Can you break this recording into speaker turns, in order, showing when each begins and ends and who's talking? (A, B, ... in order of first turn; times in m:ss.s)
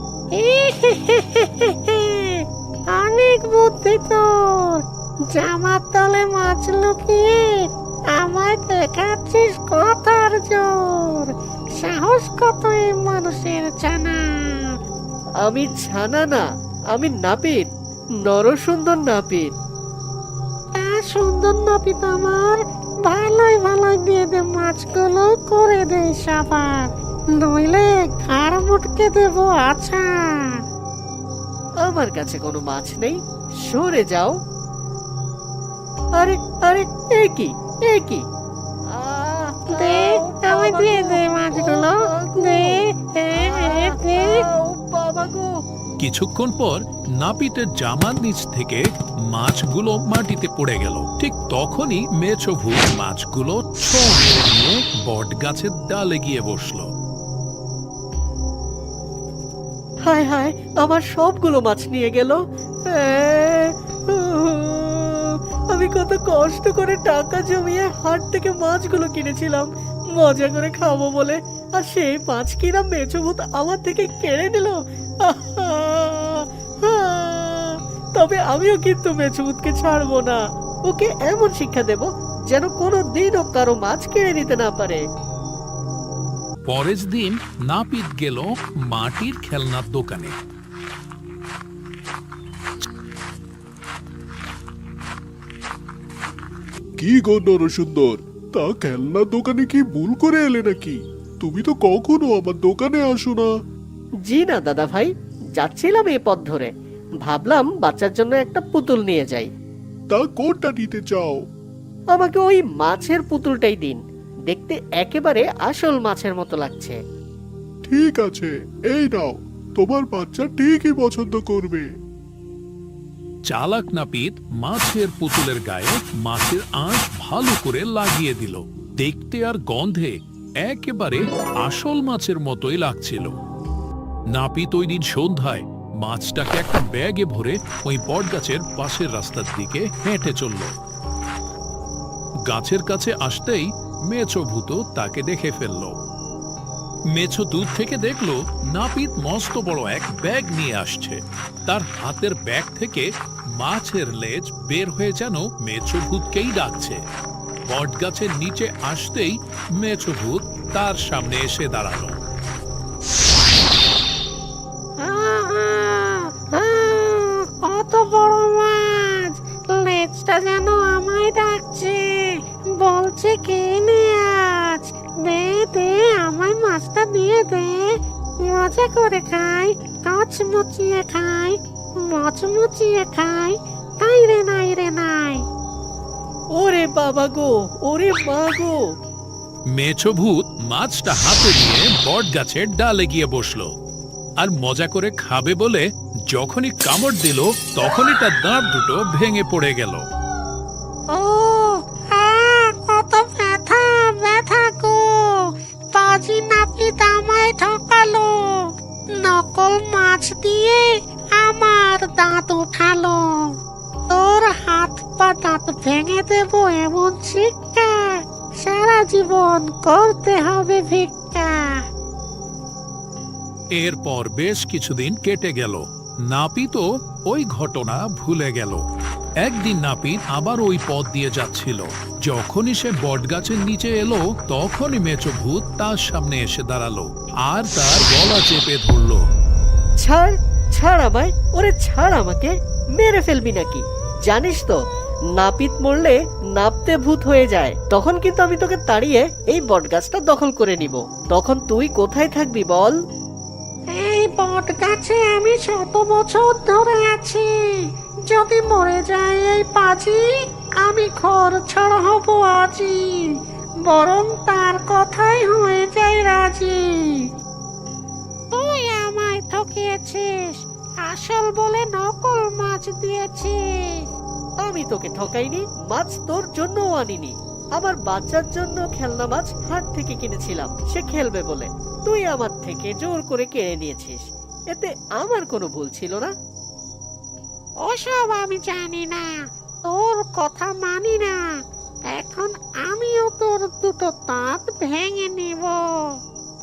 0:00.4-0:04.8 A
0:05.3-0:07.6 A
0:08.2-0:14.7 A
0:15.4-0:17.7 B
0:18.2-0:19.5 B
0:20.8-0:26.9 A
0:27.4-0:30.0 A
0:31.8-0:34.3 B
0:36.2-0:38.2 B
0:38.9-0:42.8 B
0:39.7-0:44.3 A
0:43.3-0:45.5 B
0:46.0-0:56.9 C
1:00.1-1:25.0 B
1:26.7-1:30.3 C
1:37.0-1:43.5 D
1:44.3-1:46.7 B
1:47.2-1:49.5 B
1:50.1-1:51.4 D
1:52.1-1:57.0 B
1:57.8-2:01.8 D
2:03.5-2:13.3 C
2:14.3-2:20.7 C
2:22.5-2:26.0 C
2:27.1-2:37.0 C
2:37.7-2:42.2 C
2:45.2-3:05.4 A
3:06.6-3:08.7 B
3:09.7-3:13.7 C
3:14.4-3:20.0 C
3:21.2-3:28.7 A
3:29.2-3:33.2 A
3:34.1-3:41.5 A
3:43.8-3:48.8 C
3:49.4-3:59.2 C
4:00.0-4:04.8 B
4:05.4-4:12.9 B
4:14.0-4:17.4 A
4:18.3-4:20.2 A
4:20.8-4:23.0 A
4:23.9-4:26.8 A
4:28.5-4:34.0 A
4:34.6-4:44.2 B
4:44.7-4:46.3 B
4:47.9-4:49.3 A
4:49.9-4:51.4 A
4:52.1-4:55.8 A